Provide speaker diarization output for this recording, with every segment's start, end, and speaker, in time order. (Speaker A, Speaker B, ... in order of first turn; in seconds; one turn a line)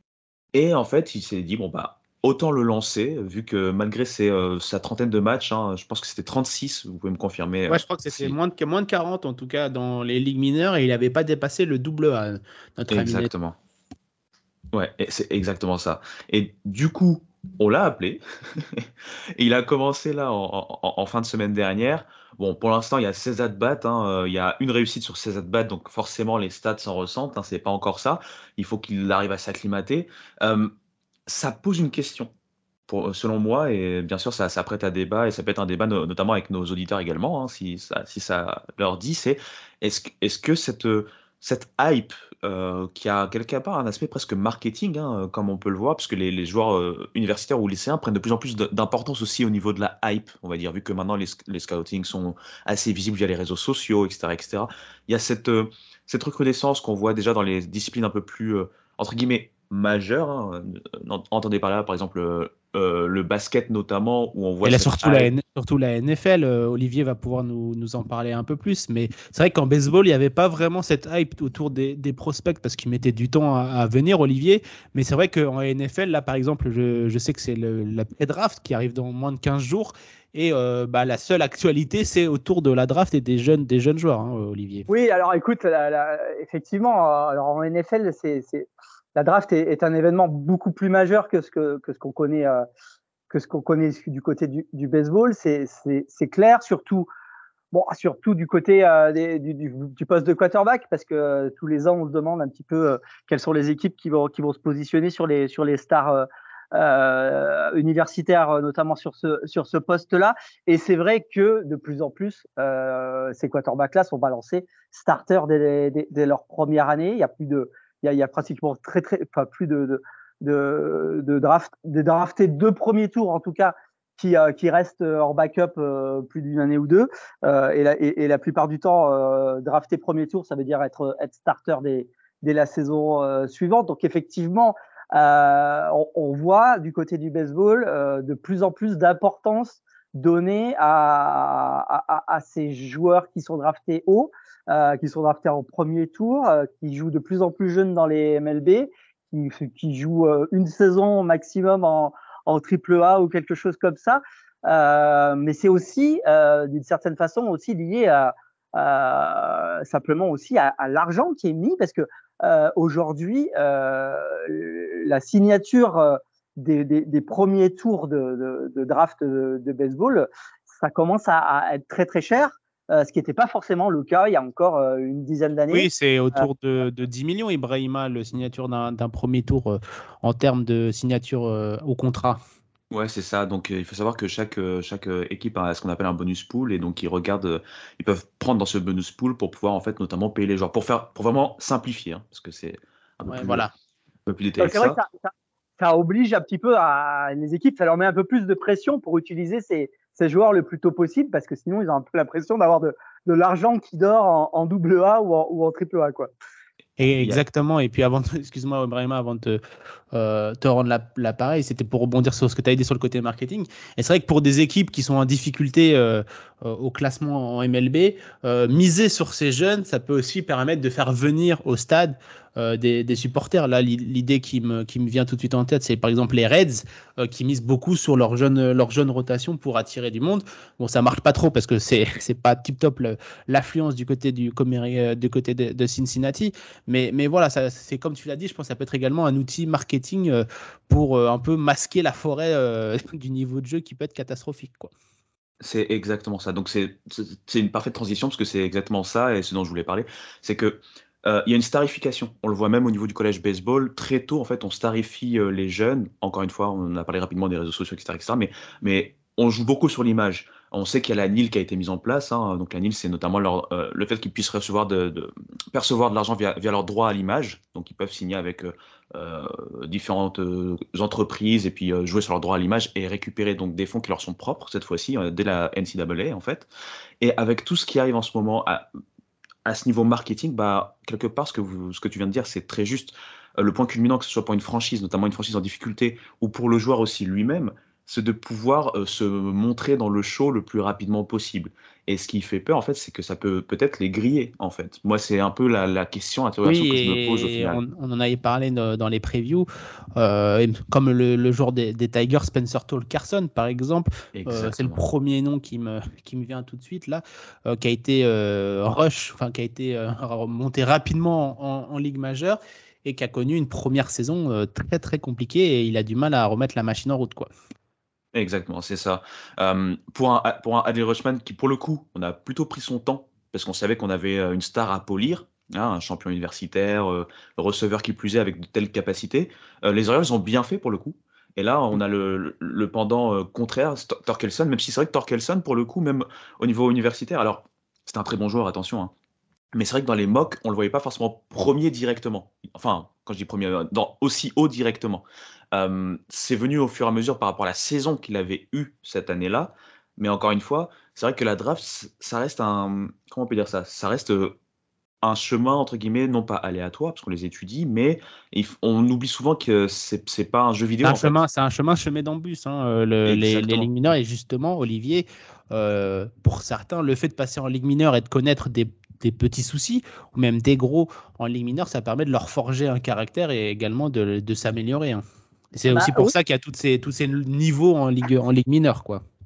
Speaker A: 0.5-8.3
Speaker B: 7.7-13.3
Speaker A: 12.9-13.6
Speaker A: 14.7-30.7
Speaker A: 31.3-32.3
Speaker A: 32.9-65.3
Speaker B: 64.6-84.9
Speaker C: 84.9-92.6
Speaker C: 93.3-97.1
Speaker C: 97.7-176.5
Speaker B: 175.7-182.4
Speaker A: 182.9-193.6
Speaker B: 193.3-193.7
Speaker A: 194.3-195.0
Speaker C: 194.6-206.3
Speaker B: 207.0-209.6
Speaker B: 210.1-244.9
Speaker A: 245.6-276.7
Speaker A: 277.2-278.9
Speaker A: 279.6-297.8
Speaker B: 296.6-317.5
Speaker A: 304.4-305.0
Speaker A: 318.4-339.1
Speaker A: 339.7-354.6
Speaker A: 355.2-361.3
Speaker B: 361.0-379.2
Speaker A: 363.3-363.9
Speaker C: 375.9-376.3